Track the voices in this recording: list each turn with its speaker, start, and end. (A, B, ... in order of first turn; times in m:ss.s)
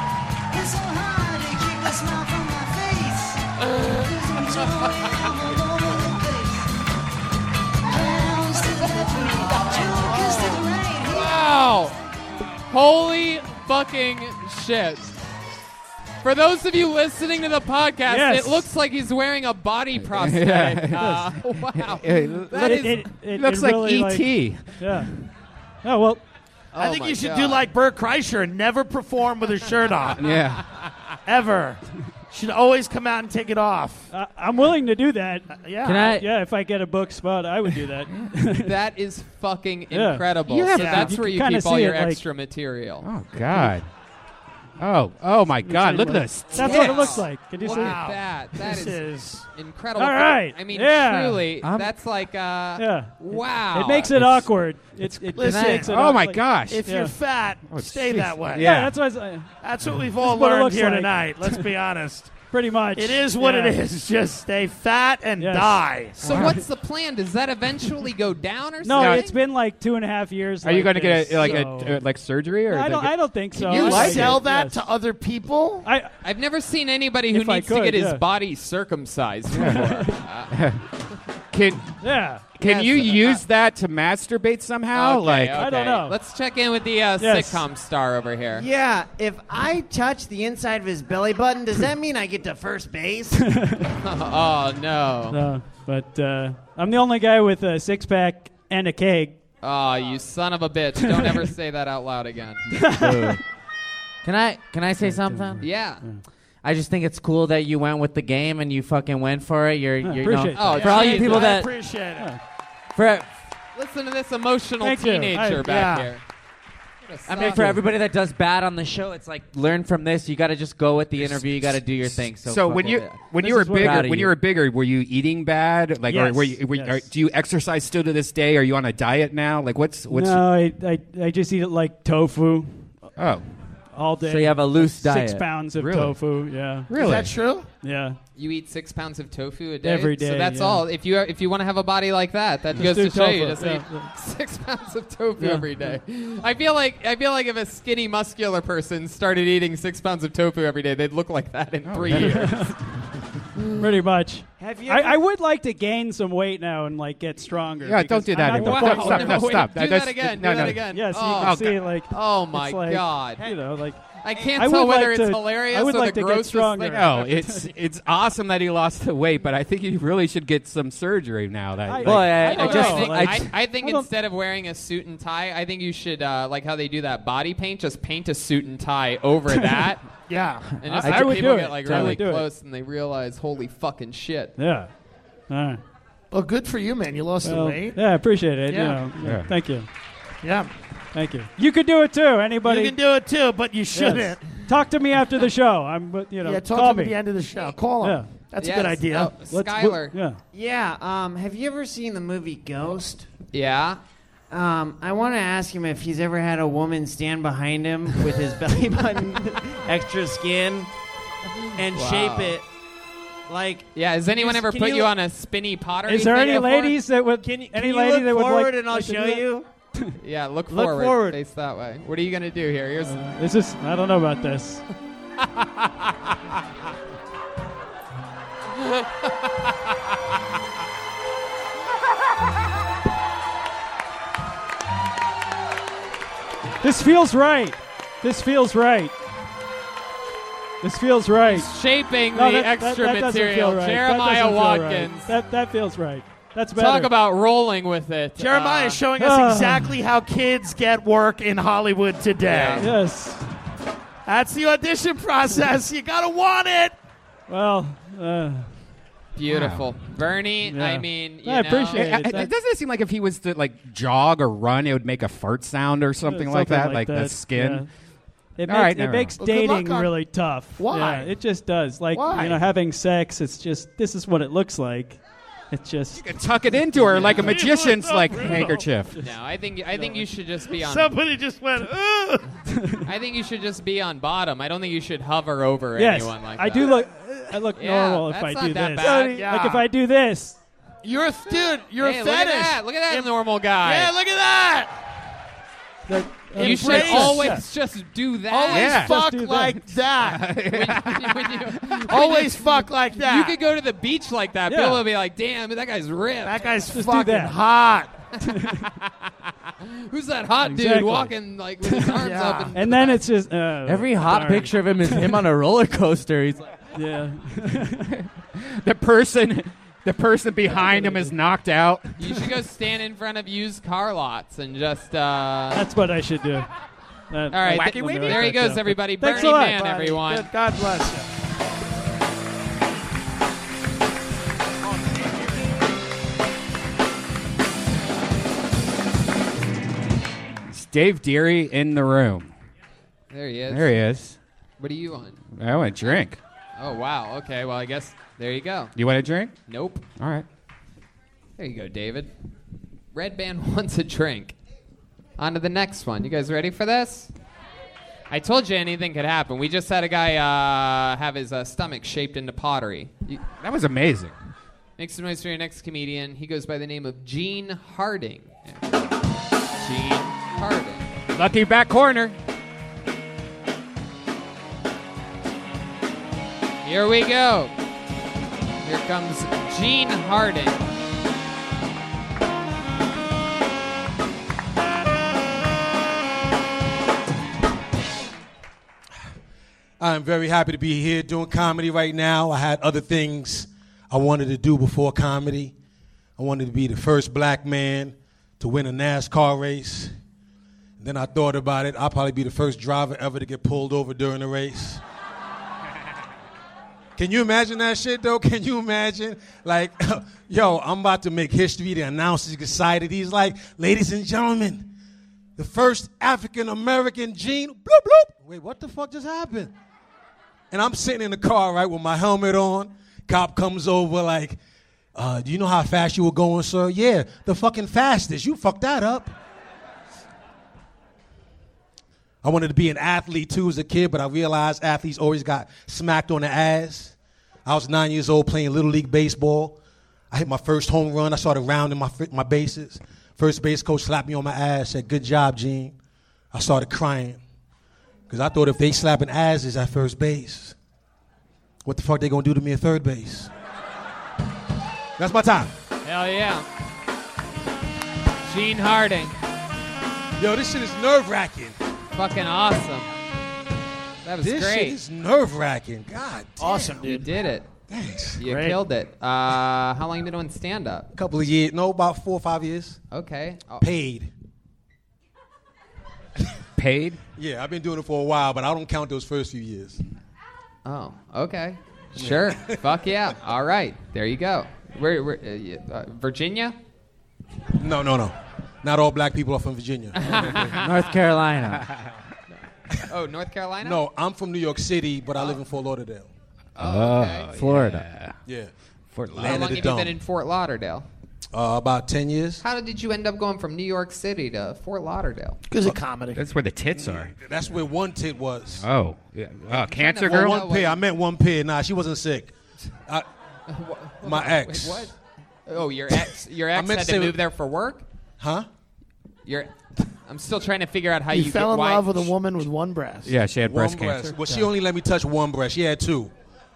0:03.8-0:05.3 A
0:08.1-0:12.0 A
0:12.7-0:15.1 A
0:16.2-0:23.1 A
0:18.1-0:18.7 B
0:20.0-0:25.1 C
0:21.0-0:21.3 B
0:22.5-0:25.1 B
0:25.8-0:26.2 B
0:26.7-0:30.2 D
0:26.8-0:27.7 A
0:30.2-0:30.7 C
0:31.3-0:34.1 D
0:34.1-0:38.8 B
0:35.5-0:36.1 D
0:35.8-0:36.3 E
0:38.6-0:43.1 A
0:39.9-0:42.2 B
0:40.5-0:41.0 C
0:40.7-0:41.1 D
0:43.0-0:43.9 C
0:44.8-0:47.2 C
0:45.6-0:48.1 B
0:46.5-0:54.2 A
0:46.6-0:49.5 D
0:50.0-0:51.7 B
0:51.6-0:51.9 E
0:52.8-0:57.2 B
0:54.1-0:54.5 C
0:55.3-0:58.8 D
0:55.5-0:55.8 E
0:55.8-0:56.9 C
0:57.7-0:59.0 C
0:58.6-0:59.5 B
0:59.6-1:06.2 D
1:00.2-1:01.7 B
1:02.4-1:03.8 B
1:05.4-1:06.6 B
1:06.2-1:09.4 A
1:06.3-1:06.5 C
1:08.8-1:12.0 B
1:09.0-1:09.3 C
1:10.6-1:14.4 C
1:12.7-1:14.8 B
1:13.5-1:15.9 D
1:15.8-1:16.1 B
1:16.2-1:20.5 A
1:17.3-1:18.2 B
1:19.5-1:20.8 C
1:19.5-1:20.2 B
1:21.5-1:22.0 C
1:22.0-1:22.6 B
1:22.6-1:25.6 C
1:22.6-1:23.4 A
1:24.9-1:28.7 A
1:25.6-1:26.2 B
1:27.2-1:27.6 B
1:28.6-1:33.4 F
1:33.4-1:33.9 B
1:34.0-1:35.4 A
1:35.3-1:39.4 B
1:39.6-1:42.7 A
1:41.0-1:41.5 B
1:42.7-1:43.4 B
1:42.9-1:43.4 E
1:44.2-1:45.7 E
1:45.0-1:46.2 B
1:45.6-1:46.0 A
1:46.6-1:51.8 E
1:50.0-1:51.6 B
1:50.5-1:51.5 A
1:50.8-1:52.3 D
1:52.9-1:53.3 E
1:53.8-1:56.2 A
1:54.8-1:55.7 B
1:55.6-1:56.1 D
1:57.0-1:57.8 A
1:57.3-2:04.3 E
1:57.3-1:57.9 B
2:01.2-2:10.5 C
2:03.4-2:04.1 B
2:06.1-2:07.0 B
2:10.1-2:13.1 B
2:13.2-2:13.5 C
2:13.9-2:16.9 B
2:14.2-2:15.5 E
2:15.8-2:17.3 C
2:16.9-2:17.7 D
2:17.8-2:18.2 B
2:18.4-2:32.8 A
2:19.8-2:20.9 B
2:22.7-2:24.1 B
2:25.4-2:26.0 B
2:31.8-2:32.8 C
2:32.1-2:32.8 B
2:33.8-2:39.6 B
2:34.6-2:35.2 F
2:37.8-2:41.7 C
2:38.4-2:43.5 A
2:40.6-2:47.7 B
2:44.2-2:47.0 A
2:46.9-2:52.6 C
2:51.9-2:54.1 B
2:52.0-2:53.5 E
2:52.4-3:00.1 A
3:00.3-3:00.8 D
3:00.8-3:04.5 A
3:00.9-3:02.5 B
3:04.6-3:04.9 B
3:05.5-3:05.8 B
3:06.3-3:08.0 D
3:07.4-3:09.9 B
3:08.7-3:09.1 D
3:09.2-3:09.5 C
3:10.4-3:10.7 D
3:11.1-3:13.0 B
3:12.6-3:14.6 D
3:13.9-3:17.2 B
3:16.4-3:19.3 D
3:18.0-3:18.3 B
3:18.6-3:20.2 A
3:19.4-3:20.4 B
3:20.5-3:23.3 F
3:23.5-3:24.0 A
3:24.5-3:30.9 F
3:31.8-3:32.6 F
3:31.9-3:32.6 A
3:33.5-3:33.9 F
3:34.0-3:37.0 A
3:34.4-3:35.1 F
3:36.1-3:40.1 B
3:37.4-3:39.7 F
3:40.2-3:43.2 A
3:40.7-3:41.4 F
3:43.0-3:44.8 B
3:56.8-3:59.1 B
4:00.8-4:01.7 B
4:01.5-4:05.3 A
4:02.3-4:07.1 B
4:06.8-4:09.0 A
4:08.4-4:12.9 D
4:09.2-4:10.0 B
4:12.5-4:12.9 A
4:12.8-4:13.4 B
4:14.3-4:17.0 D
4:17.5-4:18.7 B
4:19.4-4:22.4 A
4:19.5-4:19.9 C
4:20.6-4:22.5 B
4:22.0-4:27.9 C
4:26.2-4:27.9 B
4:28.6-4:35.2 B
4:28.7-4:29.4 C
4:29.4-4:30.2 D
4:30.8-4:31.4 D
4:32.1-4:32.6 D
4:35.7-4:36.4 B
4:36.1-4:39.2 C
4:37.1-4:38.8 D
4:39.2-4:41.2 A
4:39.9-4:40.3 B
4:40.8-4:42.5 D
4:42.7-4:43.0 B
4:43.0-4:47.0 A
4:46.0-4:50.6 B
4:47.7-4:49.5 A
4:49.0-4:49.8 D
4:51.0-4:54.9 D
4:52.0-4:54.1 A
4:56.1-4:57.7 B
4:56.6-4:57.6 D
4:56.6-4:59.1 A
4:58.5-5:00.5 D
4:58.7-4:59.6 C
4:58.9-4:59.8 B
5:00.2-5:02.0 C
5:00.6-5:06.7 A
5:02.1-5:03.6 D
5:04.7-5:05.0 B
5:06.4-5:08.1 D
5:06.9-5:07.6 B
5:08.4-5:08.8 B
5:08.6-5:09.1 A
5:09.8-5:13.2 A
5:10.6-5:12.2 B
5:12.2-5:12.8 D
5:12.7-5:15.4 B
5:13.8-5:16.7 E
5:16.9-5:18.1 B
5:18.0-5:22.2 C
5:20.8-5:21.3 B
5:22.2-5:25.9 A
5:25.7-5:26.7 B
5:27.3-5:30.0 B
5:27.5-5:30.5 A
5:27.7-5:28.5 C
5:29.3-5:31.3 D
5:40.7-5:42.5 C
5:43.3-5:44.0 A
5:43.7-5:44.4 C
5:44.8-5:45.4 A
5:45.6-5:46.4 C
5:46.8-5:48.9 A
5:49.0-5:49.5 C
5:49.7-5:50.0 A
5:50.2-5:50.5 C
5:51.6-5:52.3 A
5:53.1-5:54.6 A
5:55.4-5:57.3 A
5:58.3-6:03.4 A
6:03.6-6:04.3 C
6:05.0-6:08.7 A
6:09.8-6:11.1 A
6:11.3-6:12.4 C
6:16.8-6:17.7 A
6:18.8-6:20.8 A
6:30.0-6:35.7 G
6:36.4-6:40.1 G
6:41.0-6:45.0 G
6:47.2-6:54.9 G
6:55.6-6:59.7 G
7:00.7-7:04.6 G
7:05.2-7:09.3 G
7:12.4-7:19.8 G
7:20.3-7:26.0 G
7:26.5-7:27.4 G
7:28.3-7:30.8 G
7:31.8-7:33.5 G
7:35.2-7:35.7 G
7:36.0-7:36.7 A
7:38.4-7:39.4 A
7:40.4-7:41.8 G
7:42.1-7:43.1 A
7:44.2-7:45.0 A
7:44.4-7:47.0 G
7:46.6-7:47.3 D
7:47.0-7:47.7 A
7:47.9-7:48.4 G
7:48.4-7:51.1 A
7:48.4-7:48.8 D
7:51.1-7:53.0 G
7:53.1-7:53.9 A
7:53.8-7:54.3 G
7:56.8-7:57.2 C
7:57.4-8:00.0 G
8:00.8-8:06.8 A
8:02.2-8:02.8 G
8:07.7-8:10.6 G
8:10.2-8:11.0 A
8:10.7-8:11.9 E
8:12.5-8:14.0 A
8:13.8-8:16.3 G
8:16.8-8:17.5 A
8:16.8-8:18.3 C
8:17.5-8:18.1 E
8:18.5-8:18.7 G
8:19.2-8:19.6 C
8:19.3-8:20.2 G
8:19.4-8:21.1 A
8:21.5-8:22.6 G
8:22.6-8:25.6 A
8:25.7-8:26.4 D
8:26.4-8:27.3 C
8:27.0-8:28.9 G
8:28.7-8:30.7 C
8:29.7-8:31.0 A
8:30.2-8:32.5 G
8:33.7-8:35.2 A
8:34.2-8:35.1 G
8:35.7-8:38.0 A
8:36.1-8:37.4 G
8:38.4-8:38.7 G
8:39.5-8:39.7 A
8:40.2-8:42.3 A
8:41.3-8:43.3 D
8:43.3-8:44.4 C
8:43.6-8:46.3 G